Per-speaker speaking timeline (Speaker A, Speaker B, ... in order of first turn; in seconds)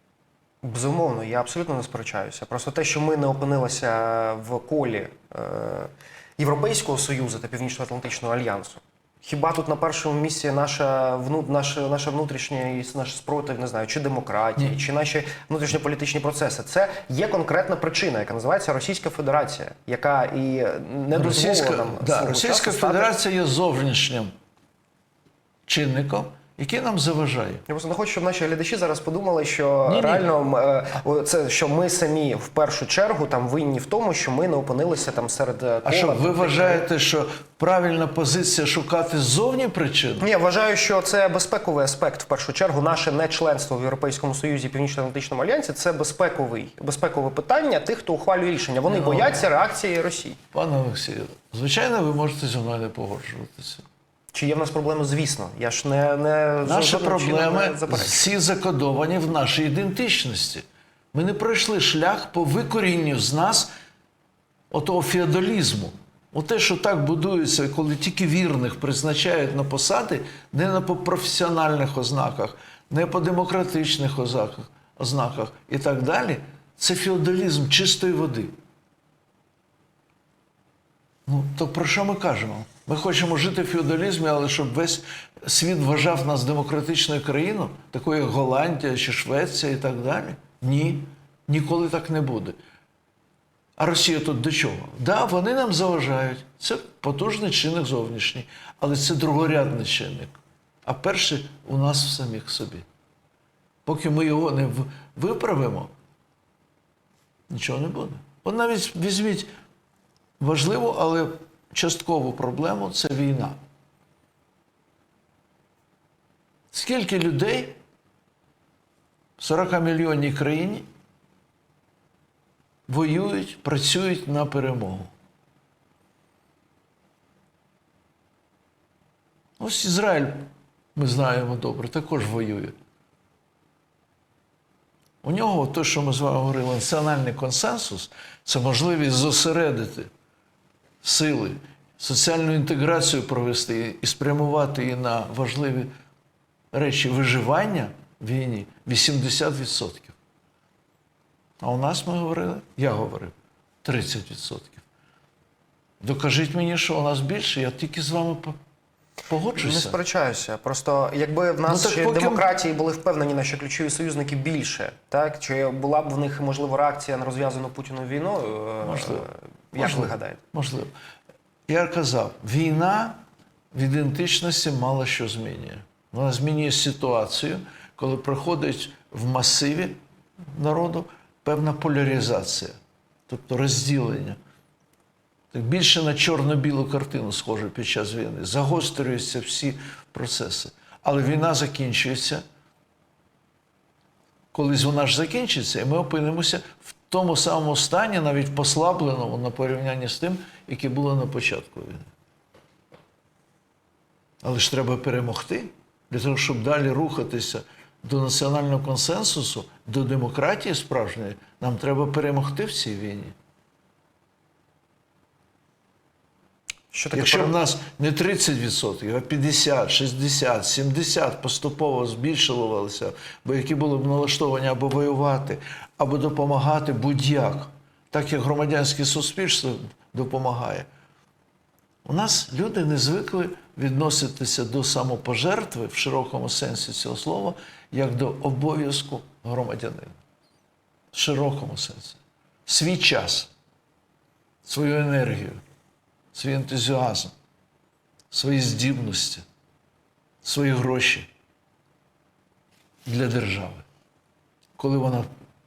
Speaker A: 0.6-23.1, 27.7-36.9, 40.2-50.4, 54.3-58.3, 159.6-170.4, 216.9-217.5
Speaker B: 21.1-24.3, 25.7-27.6, 29.9-30.3, 35.8-40.3, 48.9-49.5, 50.5-53.8, 56.6-63.7, 64.7-78.5, 81.3-92.5, 93.8-102.8, 103.8-105.9, 107.5-109.5, 110.4-113.6, 116.7-117.8, 119.4-120.8, 122.9-125.1, 129.6-132.8, 135.2-140.1, 141.0-145.9, 146.7-150.2, 151.6-154.8, 156.0-158.6, 159.3-160.0, 161.7-162.5, 168.8-169.2, 169.8-170.9, 171.7-173.2, 173.7-180.0, 180.5-182.8, 183.3-184.4, 185.5-192.4, 194.5-202.1, 204.4-213.3, 217.1-230.9, 232.0-240.2, 241.1-243.5, 244.6-245.6, 246.3-247.3, 248.3-249.4, 250.4-251.3, 253.1-253.8, 254.8-255.3